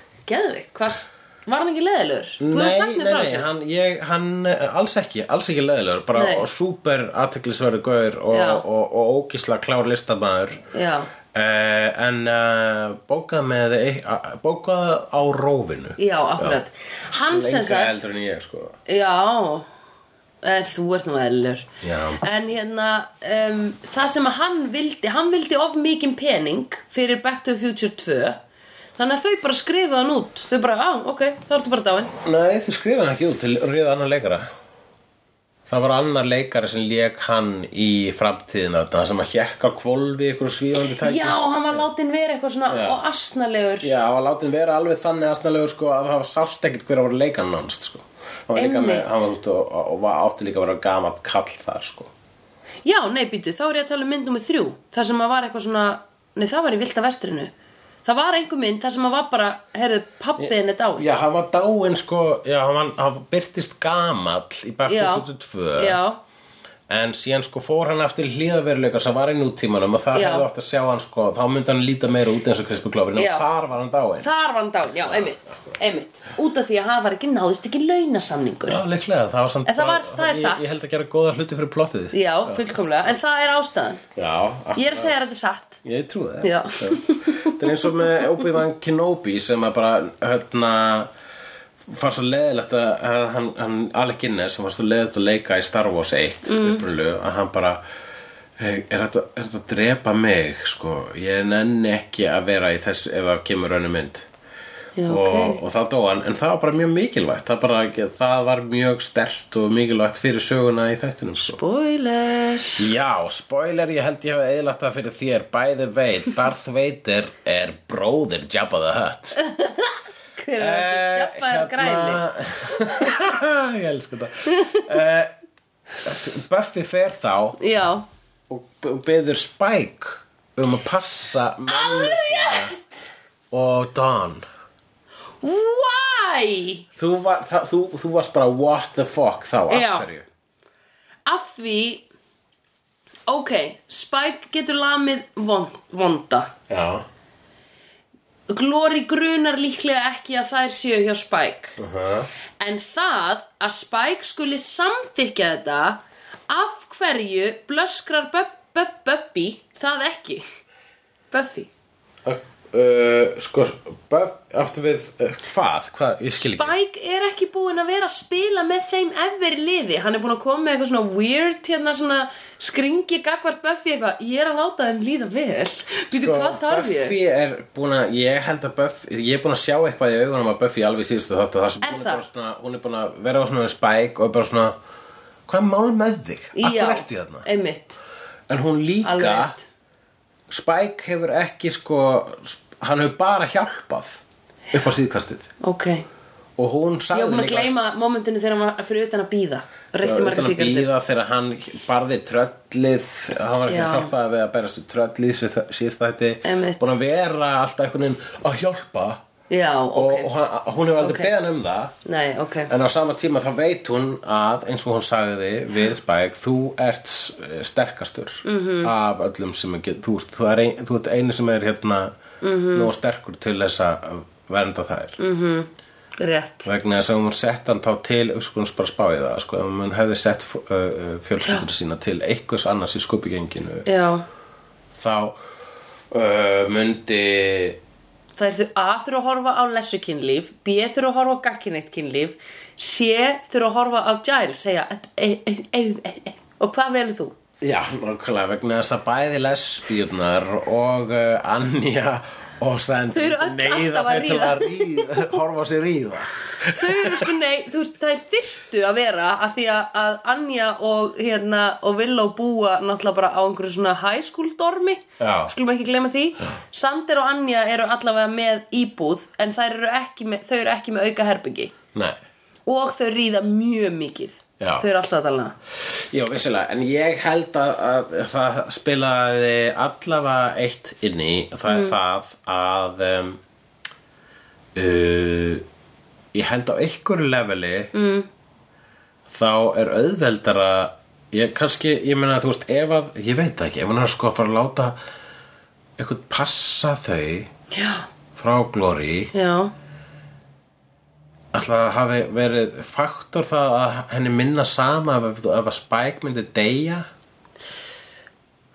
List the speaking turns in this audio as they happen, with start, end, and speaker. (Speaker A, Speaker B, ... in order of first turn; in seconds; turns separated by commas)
Speaker A: 0.3-3.5, Speaker B: 2.4-10.6, Speaker A: 6.2-6.5, Speaker A: 8.3-8.6, Speaker A: 10.7-11.1, Speaker B: 11.3-16.6, Speaker A: 16.0-17.9, Speaker B: 17.3-18.8, Speaker A: 18.9-19.7, Speaker A: 20.4-21.7, Speaker B: 21.8-22.2, Speaker A: 22.2-28.4, Speaker A: 29.0-32.1, Speaker B: 32.2-34.5, Speaker B: 35.7-41.8, Speaker A: 41.0-43.9, Speaker B: 42.7-43.0, Speaker B: 43.8-52.1, Speaker A: 48.6-49.2, Speaker A: 52.9-57.5, Speaker A: 58.0-61.1, Speaker B: 60.4-66.0, Speaker A: 64.8-66.2, Speaker B: 66.9-74.3, Speaker A: 70.1-70.5, Speaker A: 73.2-73.5, Speaker A: 74.2-78.8, Speaker B: 75.1-75.6, Speaker B: 78.7-82.6, Speaker A: 79.7-80.6, Speaker A: 82.1-84.0, Speaker B: 84.2-85.1, Speaker A: 84.8-85.8, Speaker B: 85.8-91.1, Speaker A: 86.4-88.3, Speaker B: 91.9-97.8, Speaker A: 96.5-96.8, Speaker B: 98.6-104.3, Speaker A: 105.0-105.6, Speaker B: 105.1-111.6, Speaker A: 111.4-112.9, Speaker B: 112.8-119.4, Speaker A: 119.4-122.2, Speaker B: 120.6-125.3, Speaker A: 124.5-124.9, Speaker B: 126.0-127.6, Speaker A: 127.6-128.1, Speaker B: 128.5-132.7, Speaker A: 131.7-132.8, Speaker B: 133.5-134.4, Speaker A: 135.4-136.8, Speaker B: 137.0-140.2, Speaker A: 139.7-140.1, Speaker A: 141.3-142.1, Speaker A: 143.3-146.5, Speaker B: 146.7-147.1, Speaker A: 148.5-151.8, Speaker B: 151.8-152.3, Speaker A: 152.6-160.4, Speaker A: 161.3-161.7, Speaker B: 162.2-166.8, Speaker A: 166.4-177.2, Speaker B: 176.1-184.8, Speaker A: 181.8-182.2, Speaker B: 185.5-187.5, Speaker A: 186.6-188.0, Speaker B: 188.5-189.6, Speaker A: 189.0-189.7, Speaker B: 190.5-195.5, Speaker A: 195.6-196.1, Speaker B: 196.6-197.8, Speaker A: 197.1-200.9, Speaker B: 200.0-209.2, Speaker A: 203.7-204.1, Speaker A: 206.4-206.9, Speaker A: 209.5-210.3, Speaker B: 209.9-211.9, Speaker A: 211.0-211.3, Speaker A: 212.1-212.7, Speaker B: 212.7-222.2, Speaker A: 218.4-218.9, Speaker A: 222.4-222.9, Speaker B: 222.7-225.2, Speaker A: 225.2-226.7, Speaker B: 226.7-233.9, Speaker A: 233.9-234.2, Speaker B: 234.9-235.4, Speaker B: 236.1-237.8, Speaker A: 238.4-247.4, Speaker B: 247.6-257.3, Speaker A: 253.1-255.4, Speaker A: 256.6-271.7, Speaker B: 265.2-265.5, Speaker A: 272.7-275.6, Speaker B: 274.6-274.9, Speaker B: 276.1-283.4, Speaker A: 281.7-282.0, Speaker B: 284.8-285.6, Speaker B: 286.3-287.9, Speaker A: 287.9-288.3, Speaker B: 289.3-295.0, Speaker B: 296.0-297.5, Speaker A: 297.7-298.1, Speaker B: 298.4-299.3, Speaker A: 299.3-299.7, Speaker B: 301.5-307.1